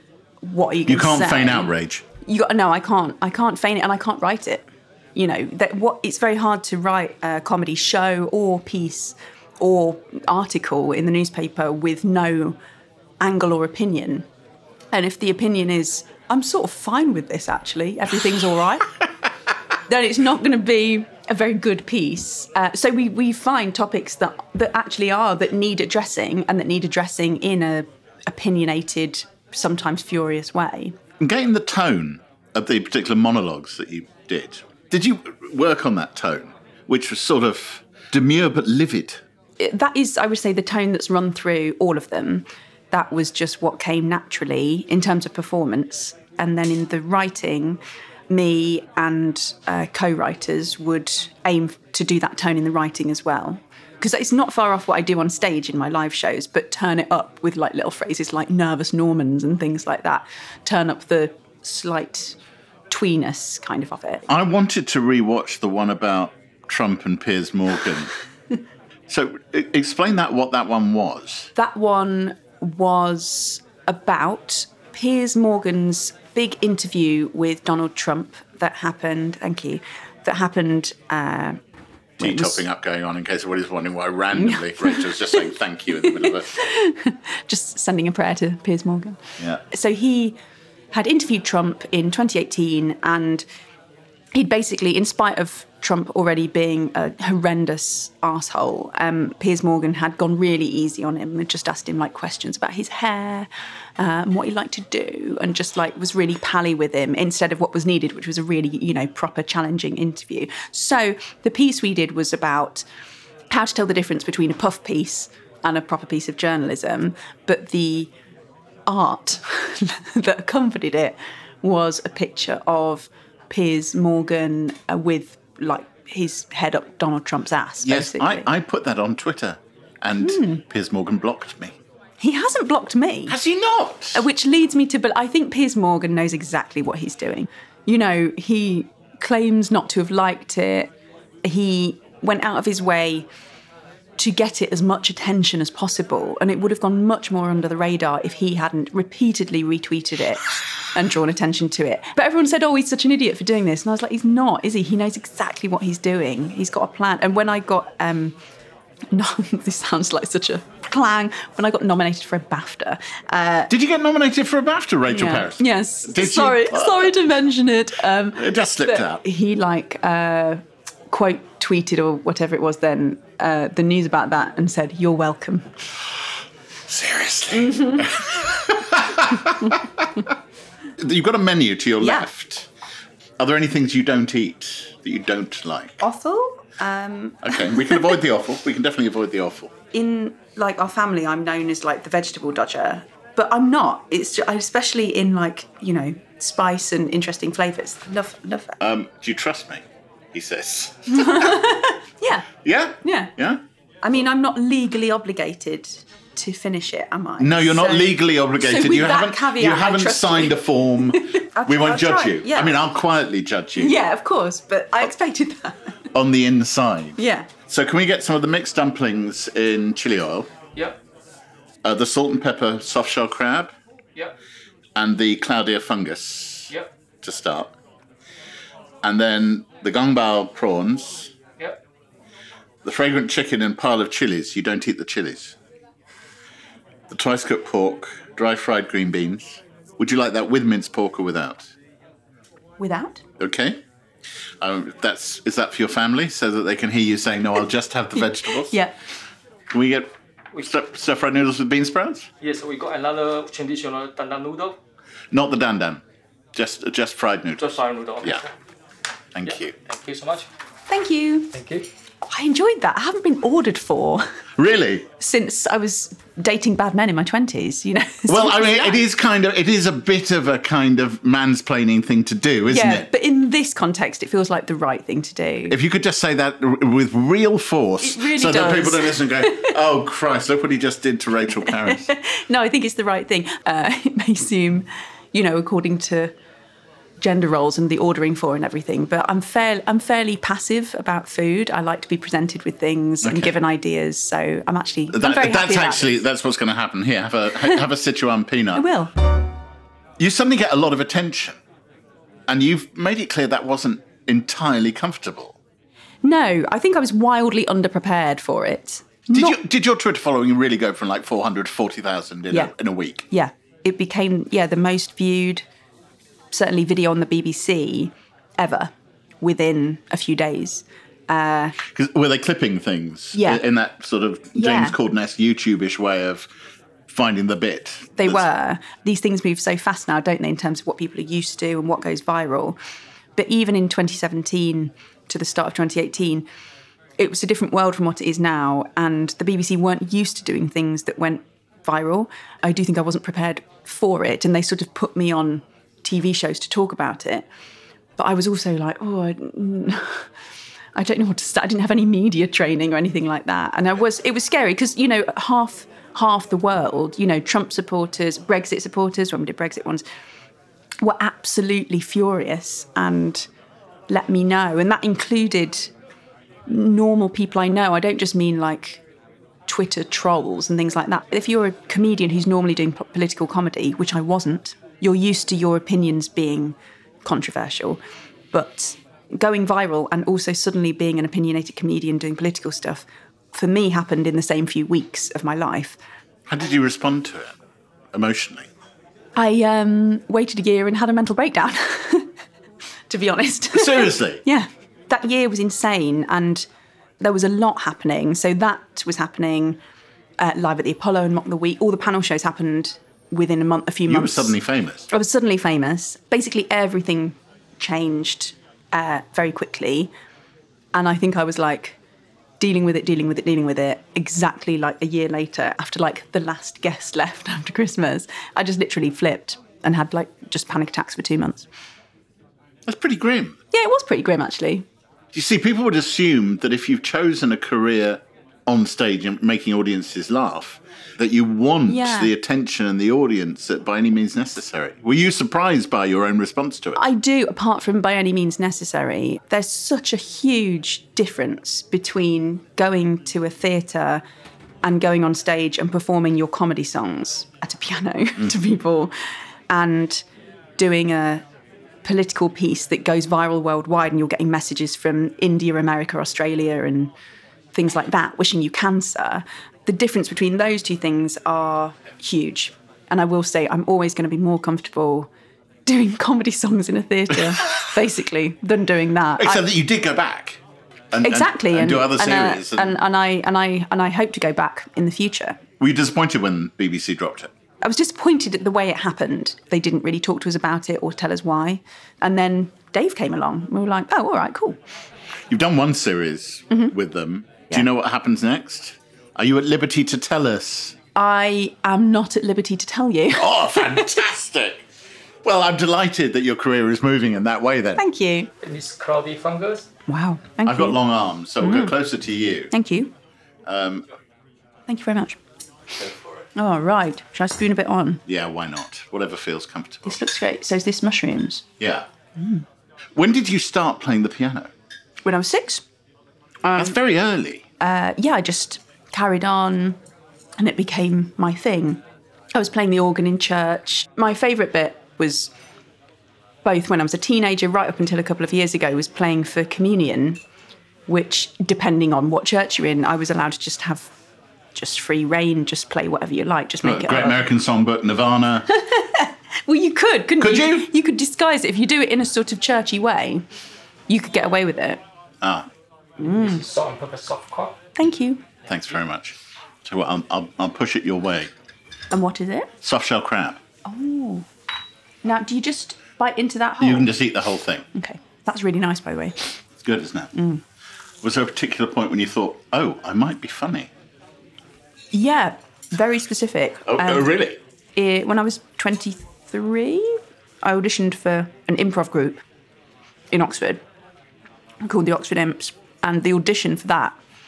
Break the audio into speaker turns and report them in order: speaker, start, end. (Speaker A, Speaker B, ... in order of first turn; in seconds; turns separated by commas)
Speaker A: 0.4-1.7, Speaker B: 0.9-2.0, Speaker A: 2.2-4.6, Speaker A: 5.2-12.6, Speaker A: 13.2-14.2, Speaker A: 14.9-18.9, Speaker A: 19.9-30.9, Speaker B: 31.2-39.2, Speaker A: 39.6-62.3, Speaker A: 62.9-64.2, Speaker B: 64.3-68.1, Speaker B: 69.1-71.5, Speaker A: 71.5-81.6, Speaker A: 82.2-82.6, Speaker B: 82.2-86.5, Speaker A: 84.3-85.4, Speaker A: 86.0-90.4, Speaker A: 90.9-93.4, Speaker A: 94.3-112.8, Speaker A: 113.5-118.1, Speaker A: 118.9-128.5, Speaker B: 127.8-131.8, Speaker A: 130.2-130.6, Speaker A: 132.2-133.3, Speaker B: 133.3-134.2, Speaker A: 134.1-140.9, Speaker A: 141.4-143.3, Speaker A: 144.2-150.4, Speaker A: 150.9-158.3, Speaker A: 159.1-163.7, Speaker B: 163.7-167.1, Speaker A: 165.1-175.7, Speaker B: 168.3-169.2, Speaker B: 176.9-180.1, Speaker A: 177.5-178.1, Speaker B: 181.0-182.7, Speaker A: 182.0-182.3, Speaker B: 183.4-186.0, Speaker A: 186.0-188.2, Speaker B: 187.4-189.7, Speaker A: 189.9-198.8, Speaker B: 198.8-201.6, Speaker A: 201.1-202.4, Speaker B: 202.6-203.6, Speaker A: 203.0-203.3, Speaker A: 204.0-212.8, Speaker B: 207.4-214.0, Speaker A: 213.8-215.8, Speaker B: 216.1-220.5, Speaker A: 217.2-217.5, Speaker B: 221.8-223.7, Speaker B: 224.9-226.7, Speaker B: 227.2-227.7, Speaker B: 229.0-231.3, Speaker B: 232.8-235.5, Speaker B: 237.1-241.6, Speaker A: 242.8-243.2, Speaker B: 243.4-243.8, Speaker B: 244.6-248.8, Speaker A: 248.2-248.9, Speaker B: 249.7-252.3, Speaker C: 252.4-254.8, Speaker B: 255.3-256.0, Speaker B: 256.5-257.6, Speaker C: 257.6-258.5, Speaker B: 259.3-259.7, Speaker C: 259.4-260.5, Speaker A: 260.9-261.5, Speaker C: 261.5-261.9, Speaker A: 262.3-264.2, Speaker B: 264.6-265.1, Speaker A: 265.2-269.0, Speaker B: 268.3-273.1, Speaker A: 272.7-275.8, Speaker B: 275.7-282.1, Speaker A: 278.0-279.7, Speaker A: 281.8-286.3, Speaker A: 287.2-296.1, Speaker B: 293.2-293.6, Speaker B: 295.1-298.9, Speaker A: 298.7-299.1, Speaker B: 300.2-301.6, Speaker B: 302.5-305.6, Speaker A: 306.2-309.6, Speaker B: 309.3-313.2, Speaker A: 313.3-315.6, Speaker A: 316.5-321.8, Speaker B: 321.8-326.5, Speaker A: 323.3-323.6, Speaker A: 324.5-324.9, Speaker B: 327.1-328.4, Speaker A: 328.2-332.8, Speaker A: 333.4-336.5, Speaker A: 337.2-347.5, Speaker A: 348.2-350.2, Speaker A: 350.9-360.0, Speaker A: 361.0-363.4, Speaker A: 364.1-365.9, Speaker A: 366.7-369.0, Speaker A: 369.7-378.0, Speaker A: 378.5-386.0, Speaker B: 386.5-387.6, Speaker B: 388.1-388.7, Speaker A: 389.4-392.3, Speaker A: 393.1-396.6, Speaker B: 393.7-394.4, Speaker A: 397.2-399.8, Speaker A: 400.4-404.6, Speaker B: 404.1-405.1, Speaker A: 405.1-410.1, Speaker A: 410.9-412.0, Speaker A: 412.6-421.6, Speaker B: 422.9-423.6, Speaker A: 423.7-424.8, Speaker B: 425.3-437.0, Speaker A: 431.9-432.3, Speaker A: 436.9-444.2, Speaker A: 444.8-449.1, Speaker A: 449.7-450.2, Speaker A: 450.8-451.4, Speaker A: 452.0-457.1, Speaker A: 457.7-465.3, Speaker A: 465.9-469.6, Speaker B: 469.4-470.6, Speaker B: 471.1-473.0, Speaker A: 471.2-475.6, Speaker B: 475.8-477.5, Speaker A: 477.8-484.8, Speaker B: 485.5-490.9, Speaker A: 491.1-494.2, Speaker B: 493.3-494.8, Speaker B: 495.4-498.0, Speaker A: 498.0-498.5, Speaker C: 498.6-499.9, Speaker A: 500.1-501.0, Speaker B: 500.6-502.7, Speaker A: 501.6-501.9, Speaker A: 502.7-503.1, Speaker B: 503.6-504.1, Speaker A: 504.9-505.4, Speaker B: 505.9-506.4, Speaker A: 506.6-508.2, Speaker B: 508.3-510.2, Speaker A: 510.1-511.6, Speaker B: 511.8-512.0, Speaker A: 512.4-512.6, Speaker B: 513.1-514.7, Speaker A: 515.2-515.8, Speaker A: 516.6-517.0, Speaker B: 516.7-517.6, Speaker A: 517.8-520.0, Speaker A: 520.6-522.0, Speaker A: 522.5-525.5, Speaker A: 526.6-530.4, Speaker A: 531.1-534.1, Speaker A: 534.7-537.4, Speaker B: 536.8-538.7, Speaker A: 538.7-543.4, Speaker B: 540.4-540.9, Speaker A: 544.1-545.0, Speaker B: 545.4-545.7, Speaker A: 546.2-546.6, Speaker C: 546.2-547.8, Speaker A: 548.0-548.4, Speaker B: 548.7-551.5, Speaker A: 552.1-552.7, Speaker B: 552.8-553.6, Speaker A: 553.8-554.5, Speaker A: 555.2-557.1, Speaker B: 556.8-557.9, Speaker A: 557.9-559.4, Speaker B: 559.8-560.3, Speaker A: 560.3-560.6, Speaker B: 561.2-563.9, Speaker A: 565.1-567.3, Speaker B: 566.9-567.6, Speaker A: 568.0-572.4, Speaker A: 573.3-573.8, Speaker A: 574.8-577.1